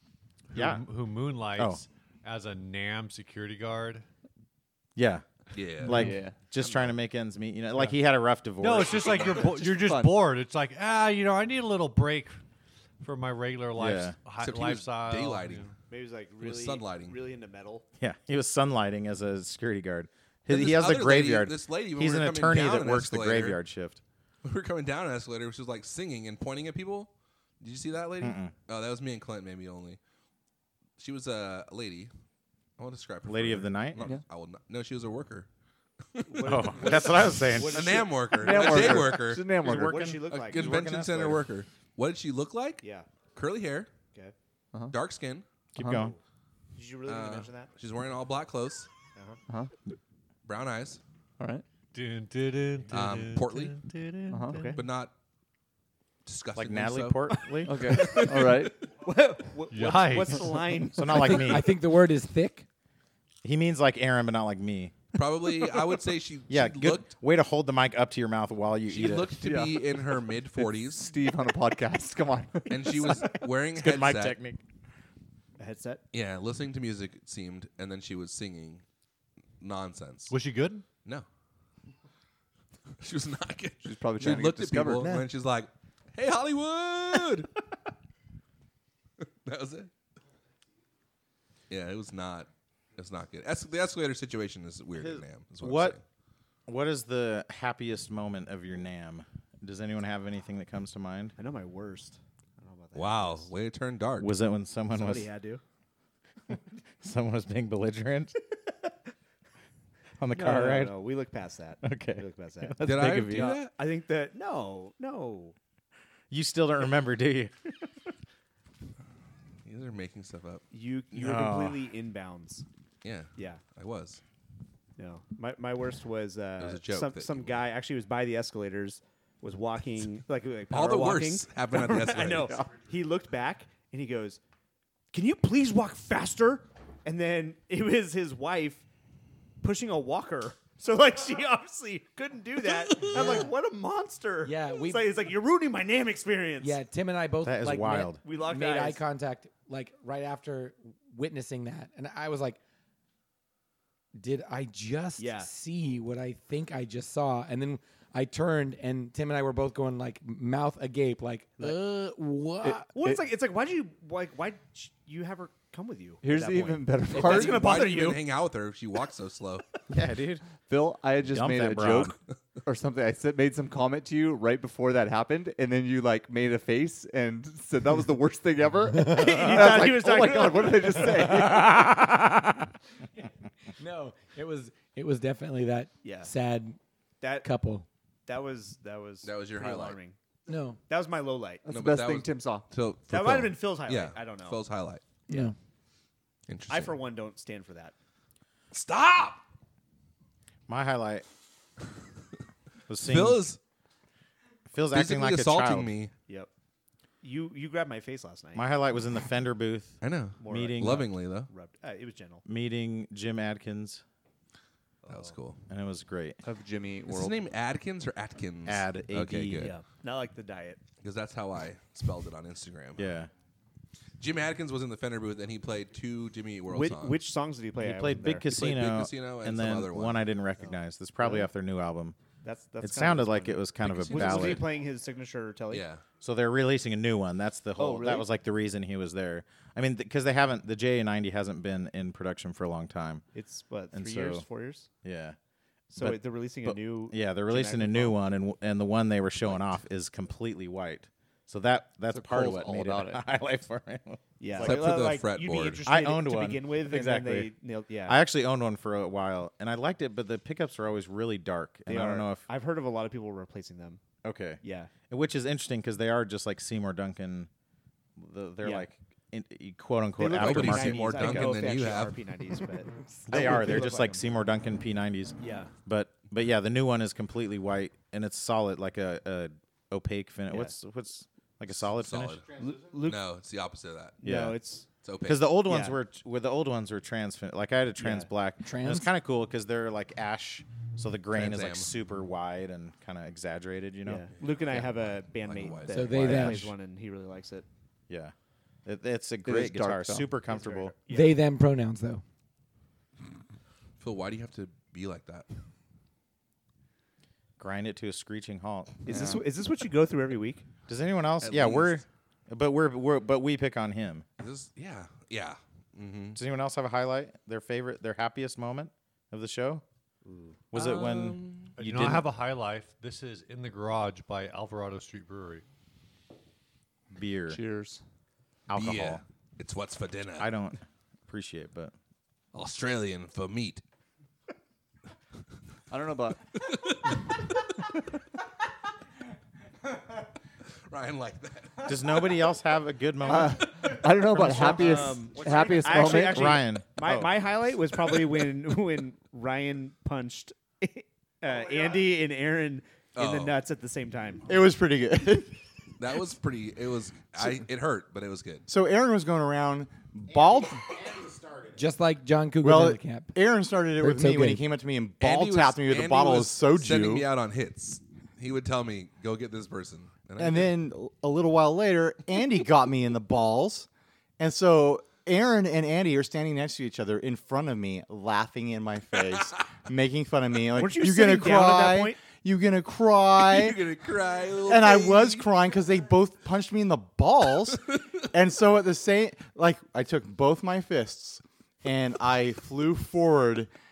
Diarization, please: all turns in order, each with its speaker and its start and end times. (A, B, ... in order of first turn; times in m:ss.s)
0:00.5-0:04.0 A
0:00.6-0:00.8 B
0:01.6-0:01.8 B
0:05.0-0:05.2 B
0:05.5-0:06.0 C
0:05.8-0:09.5 B
0:05.9-0:06.4 D
0:08.6-0:12.4 A
0:09.2-0:10.2 D
0:13.0-0:15.7 A
0:13.8-0:14.1 B
0:14.4-0:15.7 C
0:15.9-0:17.8 E
0:16.4-0:17.2 C
0:18.0-0:24.0 B
0:20.5-0:23.6 C
0:24.4-0:27.1 C
0:27.6-0:30.0 C
0:28.2-0:28.5 B
0:31.0-0:32.1 C
0:32.8-0:35.5 C
0:33.2-0:34.0 B
0:36.1-0:36.9 C
0:36.3-0:38.8 E
0:36.4-0:38.1 B
0:37.7-0:39.4 C
0:38.2-0:40.0 D
0:38.7-0:41.4 B
0:39.7-0:40.8 E
0:40.3-0:42.8 C
0:42.8-0:43.1 E
0:43.4-0:43.9 C
0:44.9-0:45.5 C
0:45.8-0:46.2 B
0:45.8-0:46.1 D
0:45.9-0:46.2 E
0:46.8-0:47.7 E
0:47.1-0:48.9 C
0:50.5-0:51.0 C
0:51.4-0:51.6 D
0:51.9-0:53.8 A
0:52.9-0:53.8 C
0:53.9-0:54.8 E
0:54.3-0:54.7 D
0:54.7-0:55.1 C
0:56.2-0:57.2 C
0:56.6-0:57.8 B
0:57.6-0:58.8 D
0:57.9-1:01.4 E
0:59.7-1:00.5 A
1:00.9-1:01.7 B
1:01.2-1:02.6 F
1:03.4-1:05.0 B
1:05.1-1:07.1 C
1:06.5-1:09.4 B
1:08.9-1:11.1 C
1:09.4-1:13.2 D
1:12.7-1:14.4 C
1:13.7-1:14.6 B
1:15.6-1:16.0 E
1:16.1-1:18.8 C
1:19.6-1:20.4 C
1:20.3-1:20.8 A
1:23.0-1:27.5 C
1:23.8-1:25.2 D
1:29.2-1:29.9 C
1:31.7-1:36.0 C
1:34.9-1:36.0 B
1:36.7-1:41.4 B
1:41.4-1:43.5 E
1:43.0-1:44.4 C
1:44.2-1:45.3 B
1:44.9-1:45.6 E
1:46.5-1:48.4 B
1:50.2-1:51.0 B
1:50.3-1:55.6 E
1:51.8-1:53.6 B
1:52.8-1:53.7 C
1:56.3-1:57.5 B
1:59.6-2:00.6 C
2:00.7-2:02.6 E
2:01.1-2:01.8 B
2:03.0-2:04.2 C
2:03.4-2:03.6 E
2:05.0-2:14.4 E
2:06.6-2:07.6 C
2:10.7-2:12.5 C
2:15.1-2:18.8 E
2:19.6-2:26.8 E
2:23.0-2:23.6 F
2:24.4-2:25.2 F
2:26.6-2:32.6 F
2:27.4-2:28.2 B
2:28.2-2:29.0 E
2:34.2-2:42.9 F
2:35.2-2:35.5 E
2:42.6-2:43.2 D
2:42.9-2:48.2 E
2:46.2-2:47.8 D
2:47.1-2:49.6 C
2:49.9-2:50.4 B
2:50.7-3:02.0 D
2:51.3-2:52.1 B
2:59.0-3:01.3 E
3:01.3-3:02.4 F
3:03.8-3:06.8 F
3:06.0-3:06.3 E
3:07.2-3:07.5 E
3:07.4-3:07.9 F
3:08.3-3:10.2 E
3:09.2-3:10.0 C
3:10.5-3:10.8 F
3:10.9-3:11.6 E
3:11.6-3:12.7 D
3:11.7-3:15.0 C
3:13.1-3:14.6 E
3:15.3-3:15.5 F
3:16.5-3:17.0 C
3:16.7-3:17.9 E
3:18.7-3:19.4 C
3:20.7-3:21.2 B
3:22.9-3:23.5 B
3:23.0-3:23.6 C
3:24.7-3:25.9 B
3:24.9-3:26.1 C
3:27.2-3:28.7 E
3:28.6-3:31.1 B
3:30.0-3:31.5 C
3:30.4-3:32.4 E
3:32.4-3:34.0 B
3:35.1-3:35.3 E
3:35.1-3:35.6 C
3:35.7-3:36.4 B
3:36.4-3:37.4 D
3:37.1-3:39.8 C
3:38.6-3:39.7 B
3:39.6-3:40.8 E
3:41.0-3:43.1 C
3:43.0-3:43.3 B
3:44.2-3:47.2 C
3:46.7-3:48.5 E
3:47.8-3:52.2 B
3:48.5-3:50.2 C
3:52.4-3:55.9 E
3:52.8-3:54.6 B
3:53.8-3:54.6 C
3:55.7-3:56.0 C
3:56.2-4:03.2 B
3:57.8-3:58.1 E
3:57.9-3:58.2 D
4:03.3-4:04.9 E
4:03.9-4:04.4 B
4:05.0-4:05.4 B
4:05.9-4:08.2 E
4:06.0-4:14.8 B
4:12.1-4:13.2 D
4:14.4-4:18.2 E
4:14.6-4:15.8 C
4:15.9-4:17.5 B
4:18.1-4:22.5 B
4:21.9-4:24.0 E
4:24.2-4:27.5 B
4:24.6-4:24.9 E
4:28.2-4:31.9 B
4:28.6-4:28.9 E
4:30.2-4:34.2 E
4:30.4-4:32.2 C
4:33.3-4:42.4 B
4:35.4-4:35.7 E
4:40.5-4:40.8 E
4:41.7-4:42.4 C
4:42.5-4:43.2 E
4:43.0-4:44.2 C
4:44.2-4:44.9 E
4:44.2-4:44.6 B
4:45.0-4:45.5 C
4:45.2-4:54.3 B
4:45.6-4:46.0 E
4:48.0-4:48.3 E
4:48.6-4:49.1 F
4:51.3-4:51.9 C
4:54.0-4:57.6 E
4:54.4-4:56.6 C
4:55.9-4:56.7 F
4:58.1-4:58.3 B
4:58.8-5:01.0 B
4:59.4-5:00.4 D
5:00.5-5:01.5 E
5:01.1-5:02.2 F
5:04.0-5:05.5 C
5:07.6-5:09.0 B
5:09.1-5:10.7 E
5:09.1-5:09.4 D
5:10.9-5:14.2 B
5:11.4-5:12.0 C
5:14.4-5:16.4 C
5:16.4-5:19.8 B
5:20.2-5:20.6 E
5:20.7-5:22.3 B
5:20.7-5:21.7 C
5:21.8-5:25.6 A
5:27.1-5:27.6 B
5:27.5-5:28.0 D
5:28.7-5:29.2 B
5:28.7-5:30.5 C
5:30.4-5:31.9 B
5:32.5-5:33.8 C
5:35.9-5:36.4 D
5:36.6-5:37.1 C
5:40.9-5:41.9 C
5:41.8-5:45.1 B
5:43.2-5:46.6 D
5:44.4-5:54.5 E
5:45.8-5:47.3 B
5:53.2-5:53.6 C
5:54.5-5:55.6 G
5:56.0-5:58.7 C
5:58.7-6:01.1 G
6:01.2-6:01.7 B
6:01.8-6:03.3 F
6:02.6-6:07.3 G
6:04.0-6:04.6 F
6:05.2-6:10.7 C
6:10.4-6:13.9 G
6:14.4-6:24.0 G
6:20.7-6:22.2 E
6:23.4-6:25.5 C
6:24.6-6:33.7 G